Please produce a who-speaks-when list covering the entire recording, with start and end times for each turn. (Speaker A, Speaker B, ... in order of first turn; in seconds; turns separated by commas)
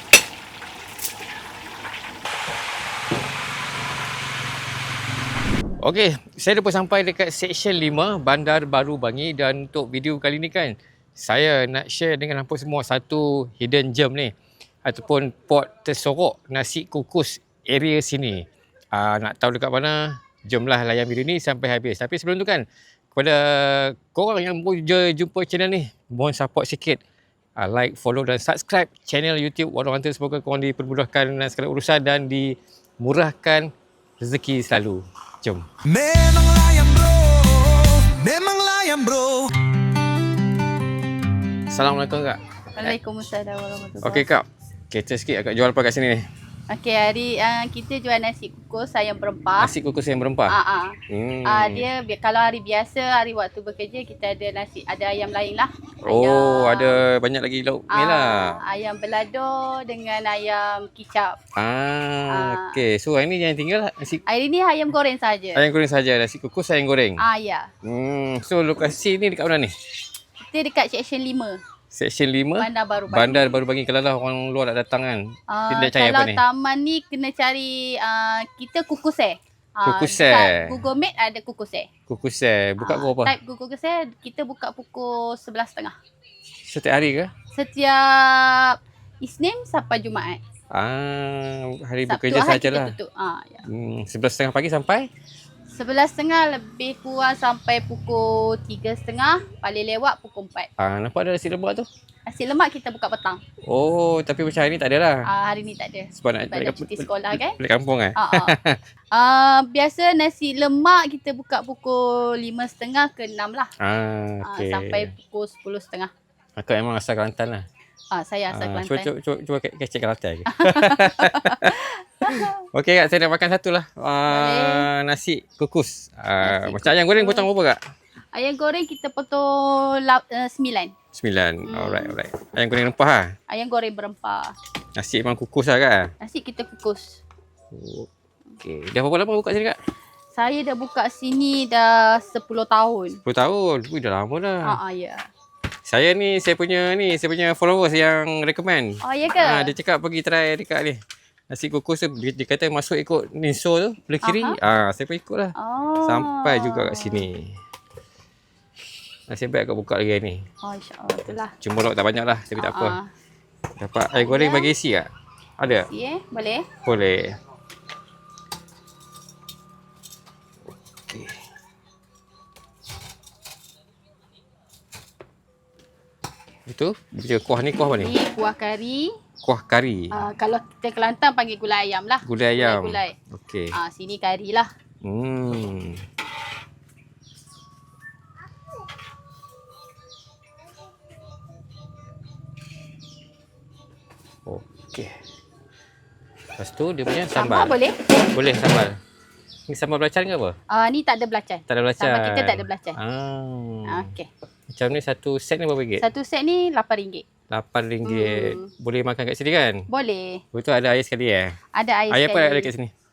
Speaker A: 5.8-14.3, Speaker A: 14.8-27.0, Speaker A: 27.6-33.7, Speaker A: 34.2-35.7, Speaker B: 35.8-39.5, Speaker A: 41.7-43.0, Speaker C: 42.8-44.3, Speaker A: 44.0-46.2, Speaker C: 46.7-49.7, Speaker A: 49.6-50.5, Speaker C: 50.5-57.0, Speaker A: 51.1-51.9, Speaker A: 56.0-58.6, Speaker C: 57.9-61.4, Speaker A: 61.6-64.2, Speaker C: 62.3-62.8, Speaker C: 64.3-65.6, Speaker A: 65.5-67.2, Speaker C: 67.2-67.7, Speaker A: 67.8-69.7, Speaker C: 70.5-71.6, Speaker A: 71.9-76.4, Speaker C: 72.6-73.6, Speaker C: 75.5-81.9, Speaker A: 79.8-80.8, Speaker A: 82.1-83.3, Speaker C: 82.8-86.0, Speaker A: 86.6-87.3, Speaker C: 87.5-90.4, Speaker A: 90.7-93.0, Speaker C: 92.1-93.7, Speaker A: 93.7-95.1, Speaker C: 95.8-100.7, Speaker A: 100.8-101.9, Speaker C: 102.3-103.4, Speaker A: 103.7-105.3, Speaker C: 105.2-107.6, Speaker A: 106.1-108.8, Speaker C: 108.2-108.6, Speaker C: 109.1-113.7, Speaker A: 113.8-115.1, Speaker C: 114.4-116.1, Speaker A: 116.6-117.7, Speaker C: 118.1-119.1, Speaker A: 118.5-127.8, Speaker C: 120.5-122.6, Speaker C: 124.3-124.9, Speaker C: 126.4-127.5, Speaker C: 128.3-130.9, Speaker A: 131.1-133.3, Speaker C: 131.7-132.2, Speaker C: 133.5-134.6, Speaker A: 135.0-136.1, Speaker C: 136.2-137.2, Speaker A: 137.7-138.1, Speaker A: 138.6-139.8, Speaker C: 140.3-143.2, Speaker A: 143.2-144.8, Speaker C: 144.6-145.2, Speaker A: 145.9-157.6, Speaker C: 149.0-149.7, Speaker C: 154.2-154.6, Speaker C: 155.6-157.3, Speaker A: 159.3-160.4, Speaker C: 160.6-161.6, Speaker A: 161.6-163.0, Speaker C: 162.6-163.1, Speaker A: 163.8-165.9, Speaker C: 164.1-164.7, Speaker C: 165.9-166.7, Speaker A: 166.8-167.4, Speaker A: 171.1-171.4, Speaker A: 176.7-178.1, Speaker C: 177.9-179.2, Speaker A: 179.4-180.1, Speaker C: 180.1-183.2, Speaker A: 182.2-183.7, Speaker C: 183.7-184.7, Speaker A: 185.0-186.0, Speaker A: 194.5-195.2, Speaker A: 196.6-199.0, Speaker C: 197.3-198.3, Speaker A: 199.7-200.6, Speaker C: 200.7-203.0, Speaker A: 201.7-204.1, Speaker C: 203.9-204.3, Speaker A: 204.7-206.1, Speaker C: 206.0-207.2, Speaker A: 207.5-209.8, Speaker C: 208.0-208.7, Speaker C: 209.9-210.4, Speaker A: 210.5-211.6, Speaker C: 211.7-212.7, Speaker A: 212.1-212.9